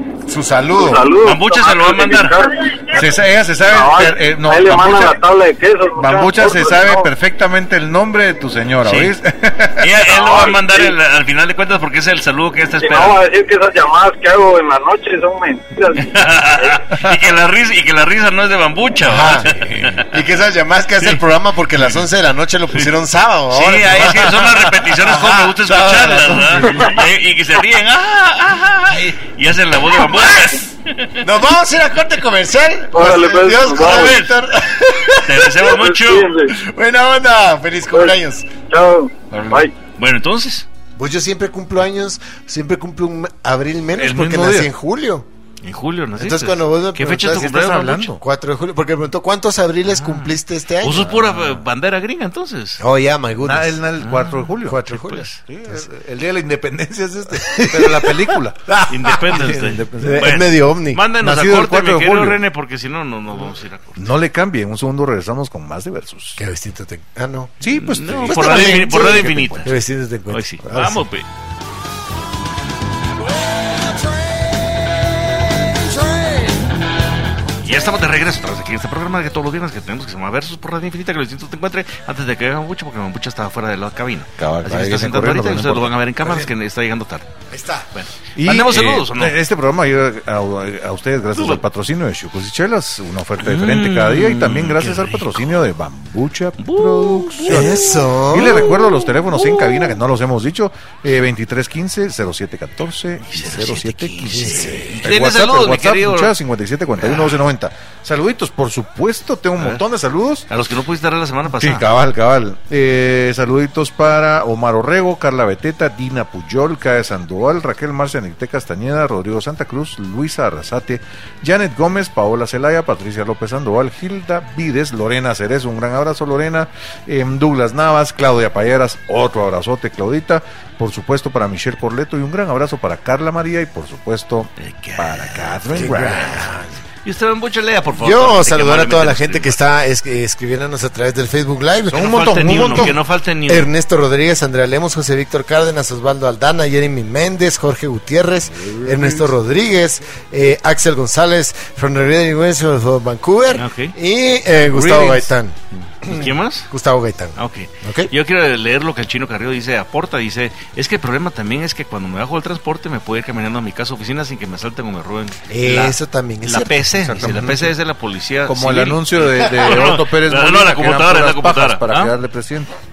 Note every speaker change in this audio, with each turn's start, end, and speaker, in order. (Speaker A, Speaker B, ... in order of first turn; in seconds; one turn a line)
Speaker A: 0.3-1.0
Speaker B: 0.7-3.0
Speaker C: 1.2-2.4
Speaker D: 2.9-5.2
Speaker B: 3.7-7.1
Speaker D: 6.0-9.9
Speaker C: 8.8-9.1
Speaker C: 9.8-13.2
Speaker B: 10.1-10.9
Speaker B: 12.8-16.8
Speaker C: 16.0-20.1
Speaker A: 19.0-26.9
Speaker D: 19.5-20.0
Speaker C: 23.5-31.2
Speaker D: 25.9-26.9
Speaker A: 29.9-30.5
Speaker A: 31.2-35.6
Speaker B: 32.9-34.2
Speaker C: 33.7-34.3
Speaker C: 35.2-36.3
Speaker B: 35.8-36.5
Speaker A: 36.5-38.5
Speaker B: 38.7-39.7
Speaker D: 39.3-39.6
Speaker C: 40.0-40.6
Speaker A: 41.0-45.2
Speaker D: 43.9-44.7
Speaker C: 45.6-48.1
Speaker A: 46.2-47.5
Speaker D: 47.1-48.2
Speaker A: 48.2-51.2
Speaker C: 49.9-52.8
Speaker D: 51.0-51.6
Speaker A: 52.8-53.8
Speaker D: 53.4-60.4
Speaker C: 54.0-54.5
Speaker A: 54.6-55.8
Speaker C: 55.0-55.4
Speaker A: 57.4-59.5
Speaker C: 58.9-64.1
Speaker A: 60.0-61.0
Speaker D: 61.2-62.4
Speaker D: 64.0-66.4
Speaker A: 66.4-67.5
Speaker D: 67.6-69.7
Speaker C: 67.7-69.7
Speaker A: 68.2-71.0
Speaker C: 70.3-71.3
Speaker C: 77.6-87.3
Speaker D: 84.4-86.0
Speaker A: 87.5-87.9
Speaker C: 87.9-89.3
Speaker D: 88.4-110.5
Speaker C: 91.3-91.6
Speaker C: 93.4-95.6
Speaker C: 96.6-99.9
Speaker A: 97.5-98.7
Speaker C: 103.3-106.3
Speaker A: 104.3-104.9
Speaker C: 107.0-107.3
Speaker C: 110.5-111.9
Speaker D: 111.5-136.4
Speaker C: 134.6-136.5
Speaker A: 135.8-136.7
Speaker C: 137.0-139.6
Speaker A: 138.0-158.1
Speaker D: 141.9-142.9
Speaker C: 141.9-143.7
Speaker D: 148.6-149.3
Speaker C: 153.5-153.9
Speaker D: 154.7-155.3
Speaker C: 156.0-156.7
Speaker C: 157.4-172.1
Speaker A: 165.5-167.6
Speaker D: 166.9-167.7
Speaker D: 168.4-172.7